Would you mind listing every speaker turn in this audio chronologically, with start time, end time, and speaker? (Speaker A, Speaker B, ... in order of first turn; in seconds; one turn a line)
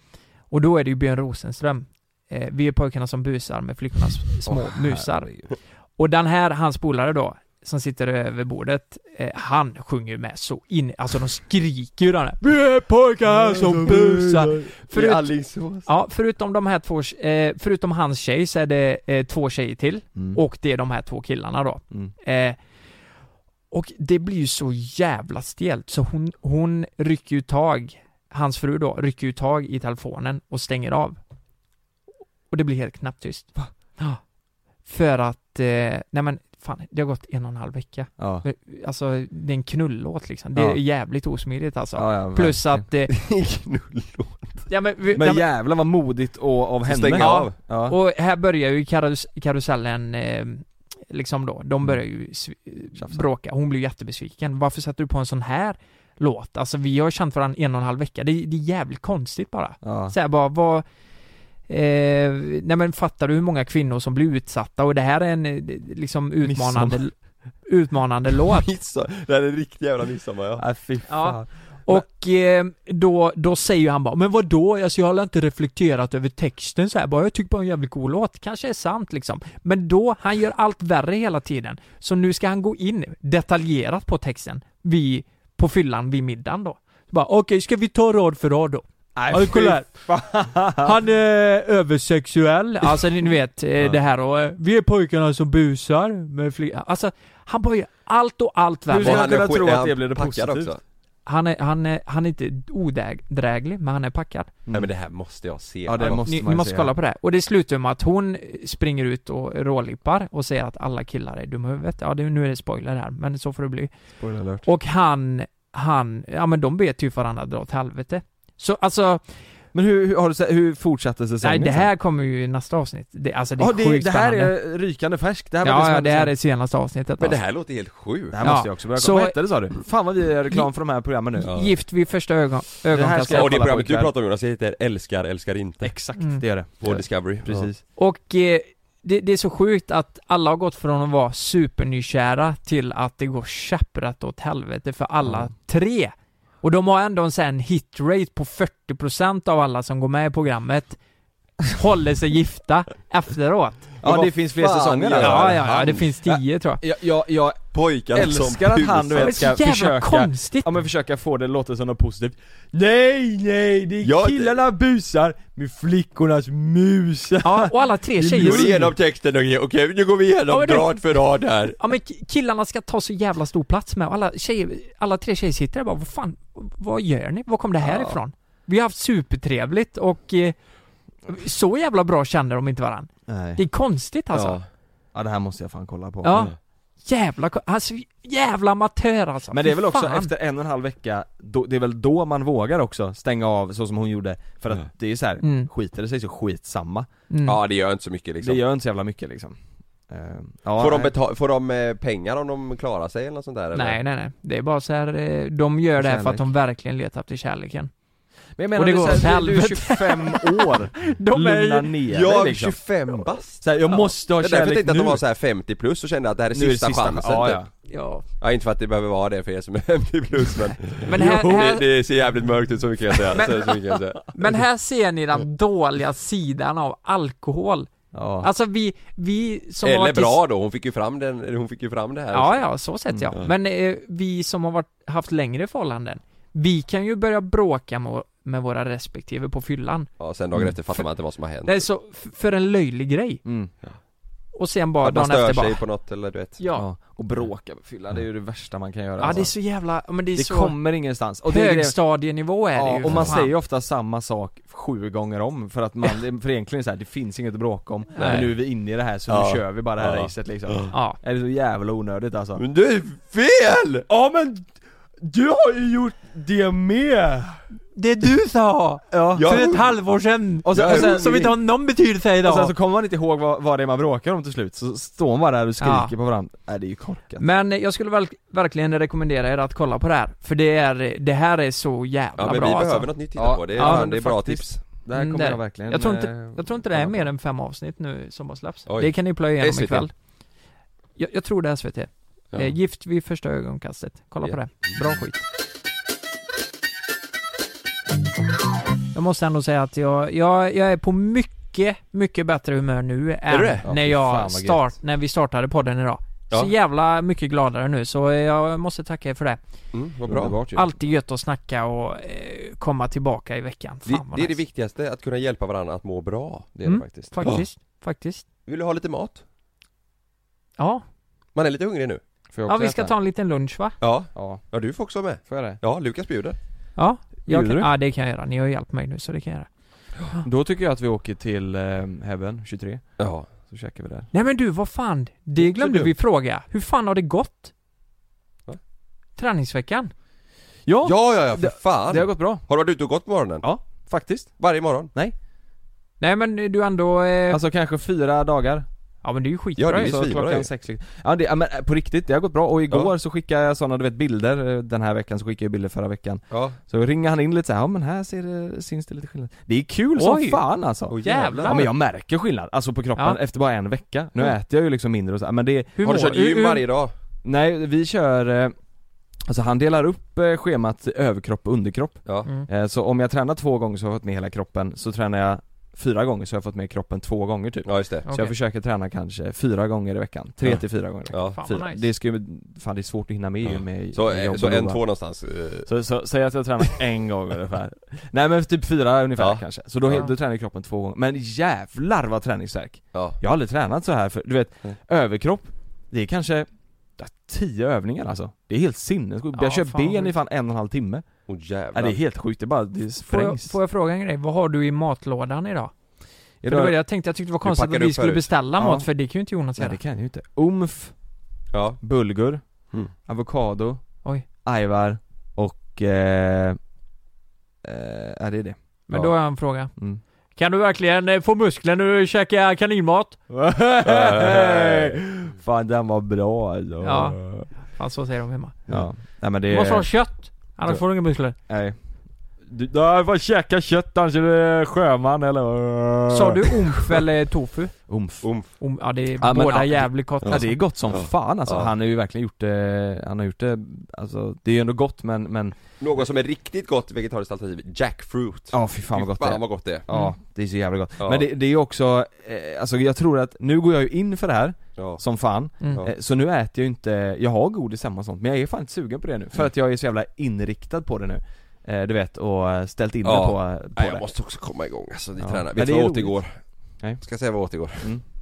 Speaker A: 0.5-5.4
Speaker B: 4.5-5.4
Speaker A: 6.0-22.6
Speaker B: 13.5-14.3
Speaker C: 13.7-15.9
Speaker A: 23.7-31.2
Speaker A: 32.5-34.2
Speaker A: 34.9-43.1
Speaker B: 38.2-38.4
Speaker B: 40.5-40.8
Speaker B: 42.0-42.8
Speaker C: 43.1-44.6
Speaker A: 44.7-45.5
Speaker B: 45.1-48.0
Speaker C: 46.8-47.5
Speaker A: 47.1-60.8
Speaker B: 53.0-53.2
Speaker B: 59.8-60.1
Speaker A: 61.7-67.1
Speaker B: 66.4-67.0
Speaker A: 67.7-68.7
Speaker C: 68.5-70.6
Speaker B: 70.6-72.0
Speaker A: 71.1-89.9
Speaker B: 89.2-91.0
Speaker A: 90.8-99.4
Speaker B: 98.9-100.7
Speaker C: 98.9-100.8
Speaker A: 101.2-104.5
Speaker C: 104.7-106.2
Speaker B: 105.8-106.9
Speaker A: 106.0-113.9
Speaker B: 114.2-114.7
Speaker A: 114.6-119.2
Speaker B: 119.7-121.9
Speaker A: 121.4-124.5
Speaker B: 123.6-126.3
Speaker A: 125.6-127.4
Speaker C: 127.2-128.5
Speaker B: 128.3-131.5
Speaker A: 128.4-129.7
Speaker A: 131.4-133.6
Speaker C: 131.4-131.7
Speaker B: 132.9-134.1
Speaker C: 133.3-135.9
Speaker B: 135.8-137.8
Speaker A: 136.2-136.4
Speaker C: 136.8-137.7
Speaker A: 137.9-151.0
Speaker A: 151.7-153.9
Speaker C: 154.0-156.0
Speaker B: 154.0-168.9
Speaker A: 155.2-156.8
Speaker C: 157.7-159.4
Speaker A: 159.2-160.7
Speaker C: 164.0-164.6
Speaker A: 167.4-168.8
Speaker C: 168.3-171.8
Speaker A: 170.5-171.2
Speaker A: 171.7-180.6
Speaker C: 177.8-178.2
Speaker A: 181.3-184.6
Speaker B: 183.3-183.6
Speaker C: 184.3-184.7
Speaker B: 185.1-186.5
Speaker A: 186.2-190.3
Speaker B: 189.5-197.1
Speaker A: 195.4-195.7
Speaker A: 197.3-197.6
Speaker C: 197.4-198.6
Speaker B: 198.4-199.6
Speaker B: 200.1-201.1
Speaker C: 200.8-204.0
Speaker A: 203.7-207.9
Speaker B: 206.0-206.5
Speaker B: 208.6-212.8
Speaker A: 208.7-211.9
Speaker C: 212.1-213.7
Speaker B: 213.5-215.2
Speaker C: 214.3-217.6
Speaker B: 216.5-217.7
Speaker A: 217.9-218.2
Speaker C: 218.4-224.2
Speaker A: 221.0-221.8
Speaker A: 223.3-227.9
Speaker B: 228.1-228.5
Speaker A: 228.4-230.4
Speaker C: 229.8-232.6
Speaker A: 232.3-240.1
Speaker C: 240.2-241.8
Speaker A: 241.7-243.4
Speaker B: 243.4-243.7
Speaker A: 244.5-245.8
Speaker C: 245.0-246.6
Speaker A: 246.6-246.9
Speaker B: 246.7-249.7
Speaker A: 249.2-253.5
Speaker B: 250.3-252.0
Speaker B: 252.7-262.6
Speaker C: 253.1-253.4
Speaker C: 258.1-258.5
Speaker A: 258.1-258.5
Speaker C: 259.3-260.9
Speaker A: 260.9-261.2
Speaker C: 262.6-264.1
Speaker B: 264.1-267.6
Speaker A: 267.9-272.7
Speaker B: 269.1-269.7
Speaker C: 269.3-269.9
Speaker B: 270.6-271.5
Speaker C: 270.7-271.5
Speaker B: 272.4-277.4
Speaker A: 275.8-276.1
Speaker A: 277.4-283.1
Speaker C: 282.4-284.8
Speaker B: 283.4-287.3
Speaker A: 283.8-284.1
Speaker A: 285.1-290.1
Speaker C: 288.9-290.1
Speaker A: 291.2-295.4
Speaker A: 299.1-309.6
Speaker C: 303.5-303.8
Speaker B: 303.8-304.9
Speaker C: 309.9-310.8
Speaker B: 310.3-310.9
Speaker A: 310.7-314.6
Speaker C: 314.1-316.7
Speaker B: 316.7-317.5
Speaker A: 316.9-318.4
Speaker C: 317.4-317.6
Speaker C: 318.7-319.4
Speaker A: 320.8-321.0
Speaker C: 321.5-322.2
Speaker B: 322.5-323.1
Speaker A: 322.7-323.9
Speaker C: 324.0-326.6
Speaker B: 324.3-324.6
Speaker B: 325.4-325.8
Speaker A: 327.0-329.7
Speaker B: 327.4-327.9
Speaker B: 330.4-334.3
Speaker C: 333.2-333.5
Speaker A: 334.3-337.7
Speaker B: 335.6-336.1
Speaker A: 339.4-340.1
Speaker B: 340.9-342.6
Speaker C: 341.0-343.6
Speaker B: 343.6-344.6
Speaker C: 344.6-345.1
Speaker A: 346.2-347.6
Speaker B: 347.5-348.9
Speaker A: 349.2-350.1
Speaker C: 349.8-350.7
Speaker B: 350.0-366.2
Speaker C: 356.5-356.8
Speaker A: 360.2-360.6
Speaker C: 361.1-361.8
Speaker A: 361.2-361.9
Speaker A: 366.0-366.8
Speaker C: 366.0-367.1
Speaker B: 367.4-368.7
Speaker B: 369.4-385.0
Speaker C: 377.8-378.2
Speaker A: 378.3-378.5
Speaker C: 380.6-381.6
Speaker A: 381.3-382.1
Speaker C: 383.6-385.9
Speaker B: 385.9-401.2
Speaker C: 389.4-390.3
Speaker A: 399.5-400.3
Speaker C: 401.5-402.2
Speaker B: 401.9-403.7
Speaker A: 403.2-405.9
Speaker B: 406.6-406.9
Speaker A: 406.6-410.0
Speaker C: 407.6-408.5
Speaker B: 408.8-409.1
Speaker B: 409.8-411.1
Speaker C: 411.7-412.0
Speaker B: 412.0-414.0
Speaker B: 414.6-416.8
Speaker B: 417.8-419.3
Speaker A: 419.1-419.9
Speaker B: 420.0-420.2
Speaker A: 420.6-423.4
Speaker B: 423.5-427.7
Speaker C: 424.0-425.2
Speaker A: 427.0-429.0
Speaker B: 428.9-430.1
Speaker A: 429.7-431.6
Speaker B: 431.7-432.0
Speaker B: 432.6-437.2
Speaker A: 436.3-438.1
Speaker B: 438.1-438.5
Speaker C: 438.4-438.7
Speaker A: 438.8-440.8
Speaker B: 439.4-445.7
Speaker C: 440.4-441.9
Speaker C: 446.0-450.1
Speaker B: 448.7-464.3
Speaker A: 450.1-450.3
Speaker C: 451.2-451.5
Speaker C: 455.8-456.1
Speaker C: 463.2-466.6
Speaker B: 465.4-466.4
Speaker C: 467.2-468.2